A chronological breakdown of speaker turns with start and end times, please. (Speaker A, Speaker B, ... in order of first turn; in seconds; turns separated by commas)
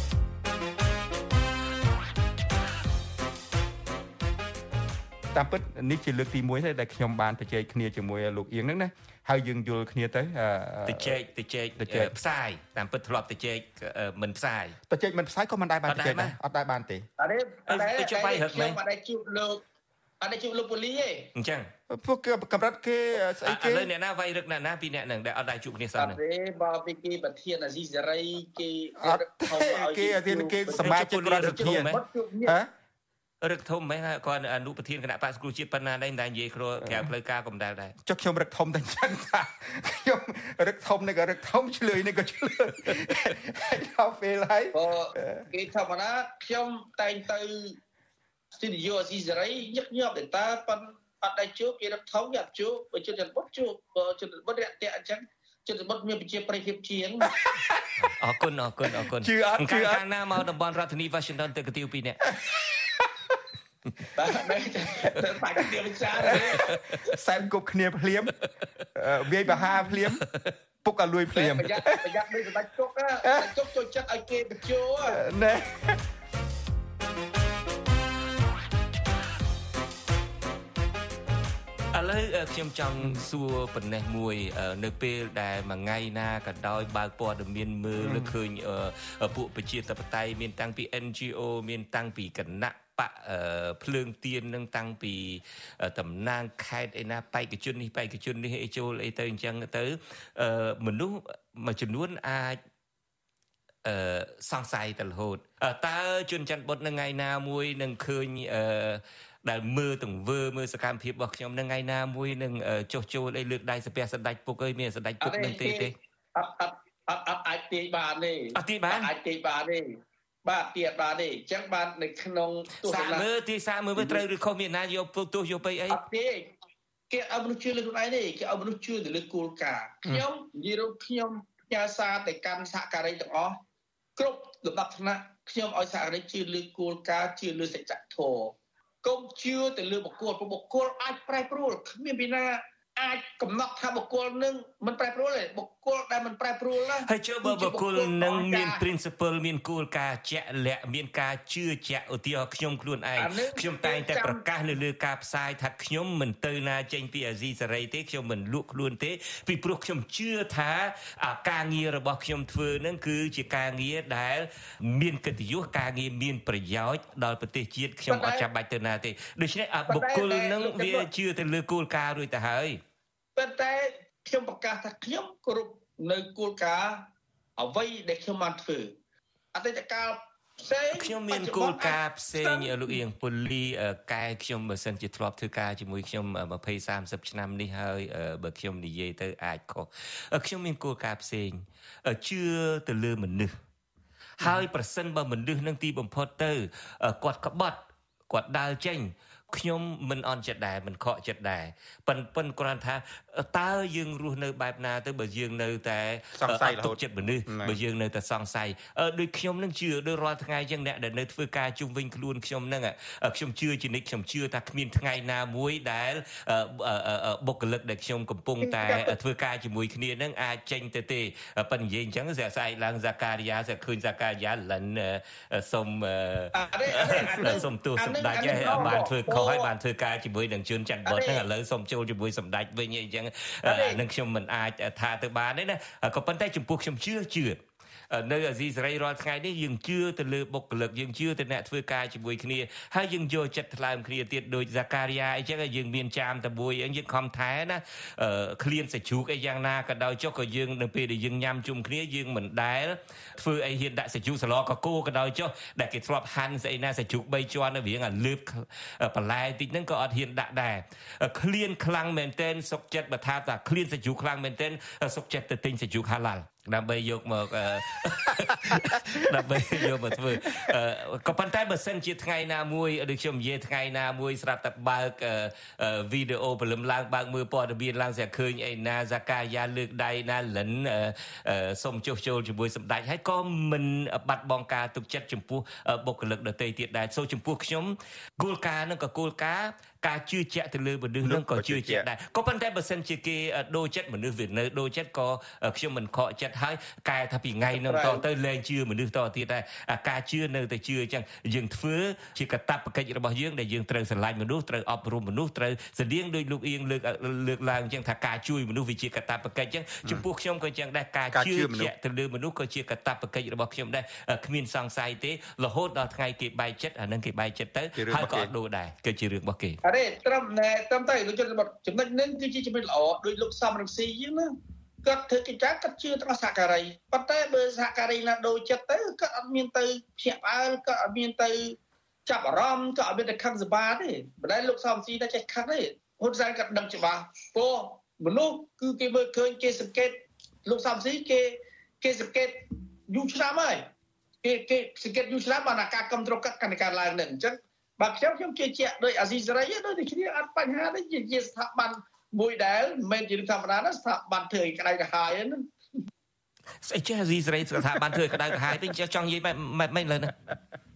Speaker A: 5.3-11.2, Speaker B: 10.9-14.8, Speaker A: 11.8-12.1, Speaker A: 14.9-17.1, Speaker B: 15.9-16.4, Speaker C: 17.2-19.6, Speaker B: 17.7-18.8, Speaker C: 20.2-21.3, Speaker B: 21.4-21.7, Speaker A: 21.9-23.9, Speaker B: 23.4-26.2, Speaker C: 26.0-32.6, Speaker A: 29.0-31.9, Speaker B: 30.8-32.0, Speaker B: 33.4-38.0, Speaker A: 38.0-45.5, Speaker C: 44.7-47.8, Speaker C: 48.6-57.4, Speaker A: 57.3-57.9, Speaker B: 58.0-62.2, Speaker A: 59.1-60.0, Speaker A: 62.3-63.1, Speaker C: 64.2-66.6, Speaker A: 66.2-68.3, Speaker B: 66.2-67.0, Speaker A: 69.0-70.2, Speaker B: 69.5-70.5, Speaker A: 70.8-72.0, Speaker C: 71.3-75.2, Speaker A: 75.1-76.0, Speaker B: 81.9-102.6, Speaker A: 88.0-88.3, Speaker B: 103.8-115.9, Speaker C: 115.2-123.3, Speaker B: 118.6-119.1, Speaker B: 122.8-126.0, Speaker C: 124.0-124.2, Speaker C: 125.9-126.5, Speaker C: 127.1-133.6, Speaker C: 134.2-148.8, Speaker B: 147.1-172.8, Speaker C: 153.2-154.4, Speaker C: 168.1-168.5, Speaker C: 169.9-171.1, Speaker C: 173.4-177.0, Speaker C: 177.6-178.9, Speaker C: 179.5-183.0, Speaker B: 180.9-193.5, Speaker B: 194.4-237.6, Speaker A: 206.3-207.8, Speaker C: 218.6-219.1, Speaker C: 226.5-229.7, Speaker A: 228.7-229.0, Speaker C: 231.1-231.5, Speaker C: 233.6-234.0, Speaker B: 238.1-319.8, Speaker A: 291.2-292.1, Speaker C: 297.7-298.2, Speaker A: 311.3-311.9, Speaker A: 318.0-318.5, Speaker C: 319.8-324.5, Speaker C: 325.0-343.9, Speaker C: 344.4-355.6, Speaker B: 356.8-360.3